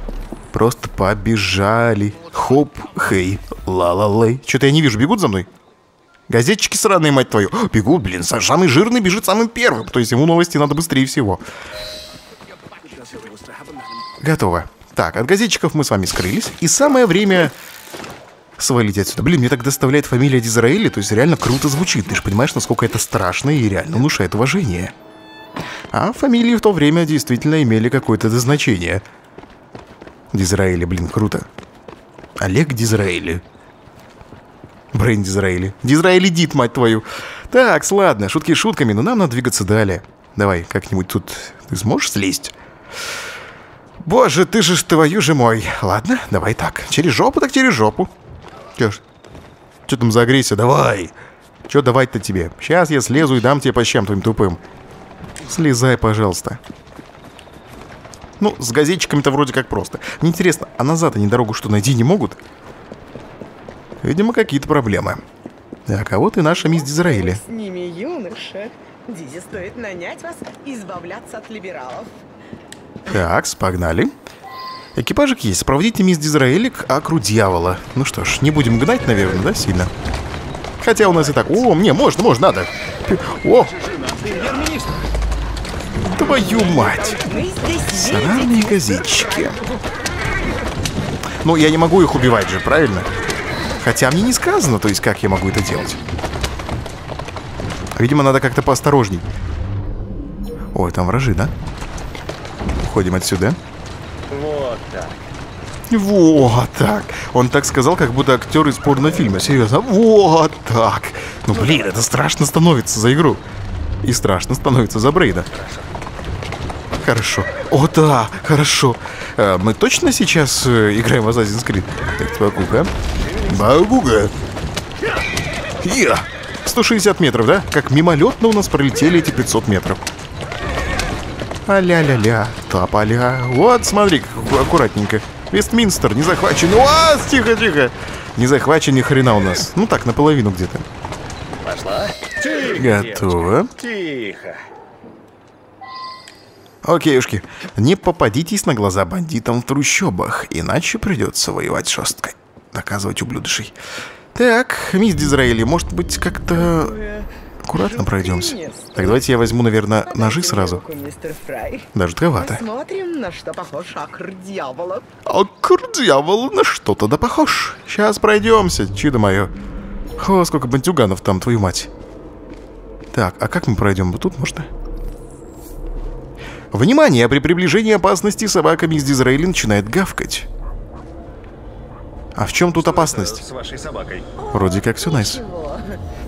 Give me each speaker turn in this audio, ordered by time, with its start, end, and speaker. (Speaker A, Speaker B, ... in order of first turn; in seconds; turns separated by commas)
Speaker A: 0.5-5.5, Speaker A: 6.3-11.4, Speaker A: 14.2-17.5, Speaker A: 18.6-24.9, Speaker A: 25.9-29.0, Speaker A: 30.3-31.5, Speaker A: 32.4-33.4, Speaker A: 34.9-42.5, Speaker A: 44.0-48.1, Speaker A: 48.8-49.0, Speaker A: 49.9-51.1, Speaker A: 51.7-54.6, Speaker A: 55.4-56.6, Speaker A: 58.4-62.4, Speaker A: 64.0-65.2, Speaker A: 65.9-67.4, Speaker B: 66.5-72.2, Speaker A: 73.1-74.1, Speaker A: 75.0-79.9, Speaker A: 80.8-83.7, Speaker C: 84.0-84.9, Speaker A: 86.1-87.2, Speaker B: 86.3-89.5, Speaker A: 87.9-89.6, Speaker A: 91.4-93.1, Speaker A: 93.8-96.0, Speaker A: 98.0-99.2, Speaker A: 100.7-101.5, Speaker A: 102.8-103.6, Speaker C: 104.3-105.2, Speaker A: 105.9-113.4, Speaker C: 111.5-111.9, Speaker A: 114.0-115.5, Speaker C: 115.5-115.8, Speaker A: 117.0-122.9, Speaker A: 123.5-124.3, Speaker A: 125.8-130.1, Speaker A: 131.7-140.8, Speaker C: 141.6-144.6, Speaker A: 142.7-143.7, Speaker A: 146.8-153.7, Speaker A: 154.3-156.9, Speaker B: 156.5-165.1, Speaker A: 157.6-160.8, Speaker A: 161.9-162.6, Speaker A: 165.2-169.5, Speaker A: 170.2-171.9, Speaker A: 173.1-174.7, Speaker A: 176.7-180.5, Speaker A: 182.3-183.4, Speaker C: 182.7-184.3, Speaker B: 184.4-186.0, Speaker A: 184.5-185.4